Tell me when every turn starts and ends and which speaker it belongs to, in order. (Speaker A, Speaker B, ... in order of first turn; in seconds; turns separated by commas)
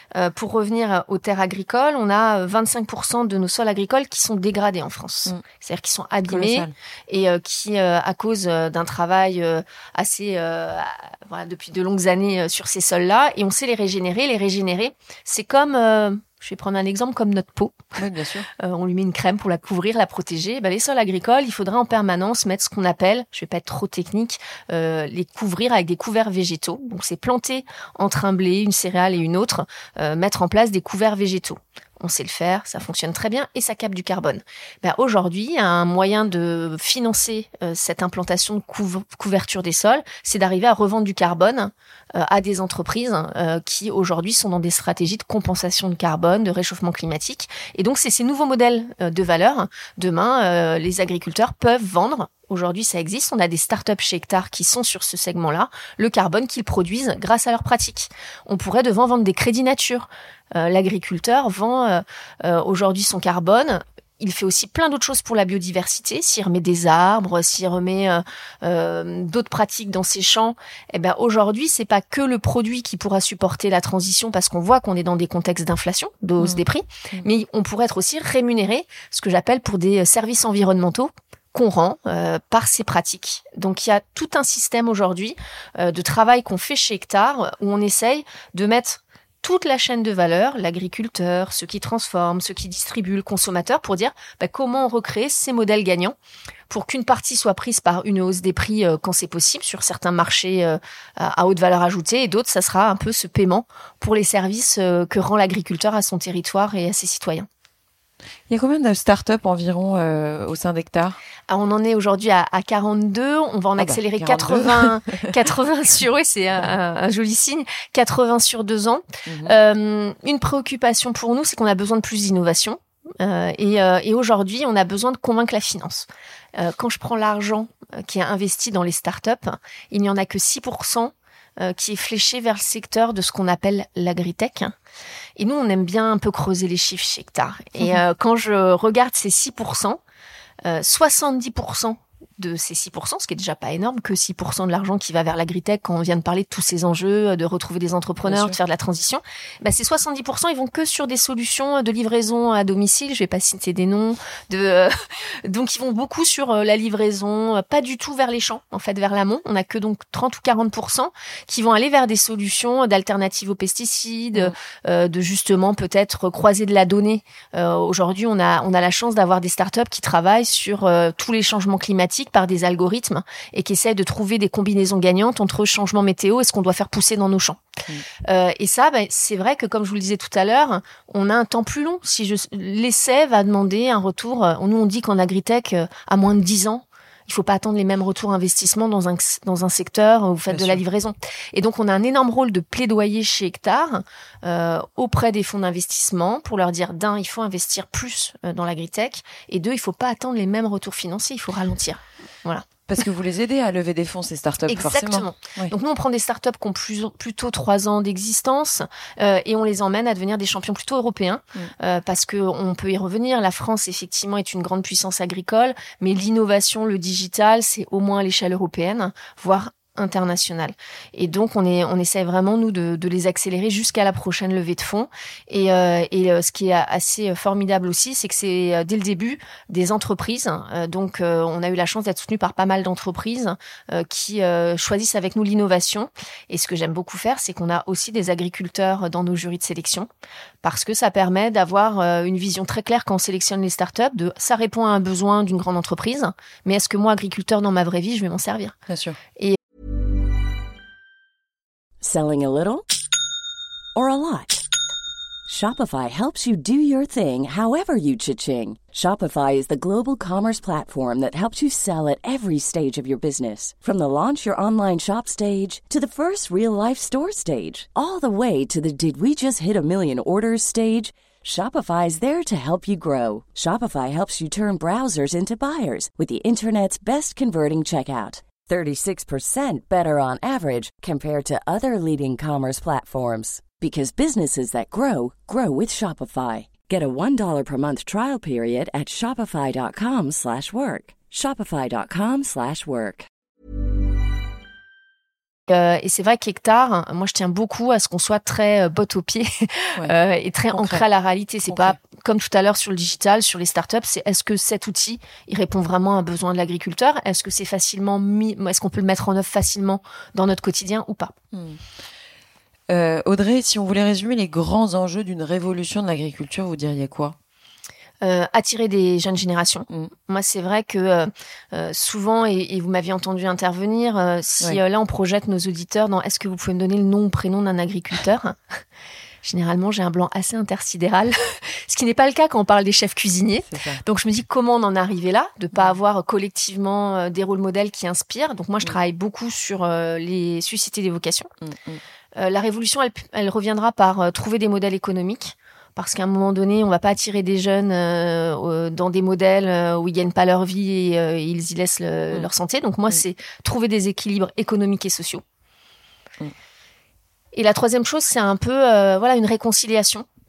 Speaker A: 0.1-17.9, Speaker B: 6.2-6.7, Speaker B: 17.9-18.5, Speaker A: 18.6-96.1, Speaker B: 76.4-77.3, Speaker A: 96.7-107.5, Speaker B: 108.5-111.2, Speaker A: 111.5-134.7, Speaker B: 113.8-115.3, Speaker B: 119.3-119.5, Speaker A: 135.4-140.0, Speaker A: 140.6-177.6, Speaker B: 148.2-148.6, Speaker A: 178.2-202.7, Speaker B: 190.5-190.8, Speaker B: 202.9-205.7, Speaker A: 204.7-240.1, Speaker A: 240.6-248.8, Speaker B: 248.9-249.2, Speaker C: 252.0-252.8, Speaker C: 253.9-254.6, Speaker C: 255.5-293.3, Speaker A: 295.7-311.3, Speaker B: 300.7-301.0, Speaker B: 301.7-302.0, Speaker B: 311.5-311.8, Speaker B: 312.9-317.4, Speaker A: 318.2-328.6, Speaker A: 329.4-341.5, Speaker B: 333.7-334.0, Speaker B: 341.6-342.0, Speaker A: 342.4-355.4, Speaker A: 357.5-360.2